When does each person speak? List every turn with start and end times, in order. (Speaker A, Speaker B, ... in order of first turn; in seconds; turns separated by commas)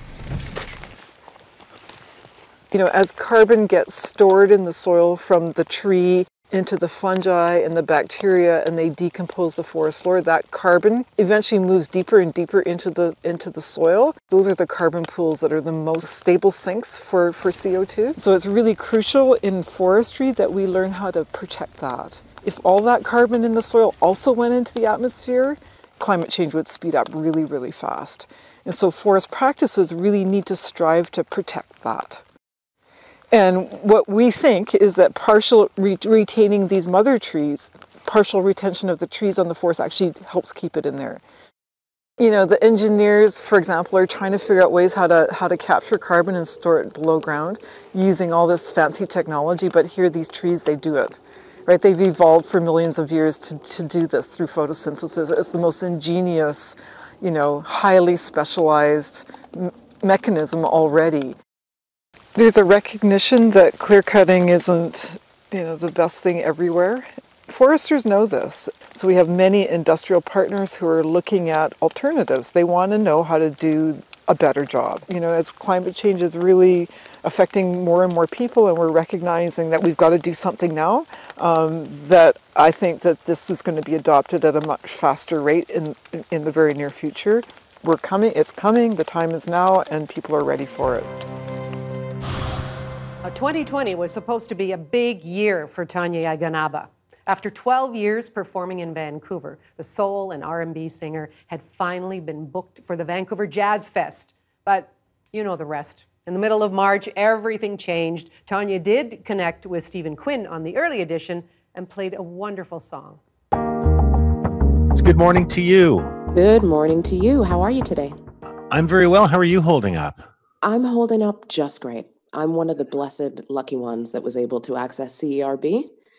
Speaker A: 2.7-32.2, Speaker A: 33.3-41.2, Speaker A: 42.2-61.4, Speaker A: 62.4-91.1, Speaker B: 93.2-113.2, Speaker C: 114.9-116.1, Speaker D: 116.3-118.2, Speaker C: 118.7-120.3, Speaker D: 120.6-125.9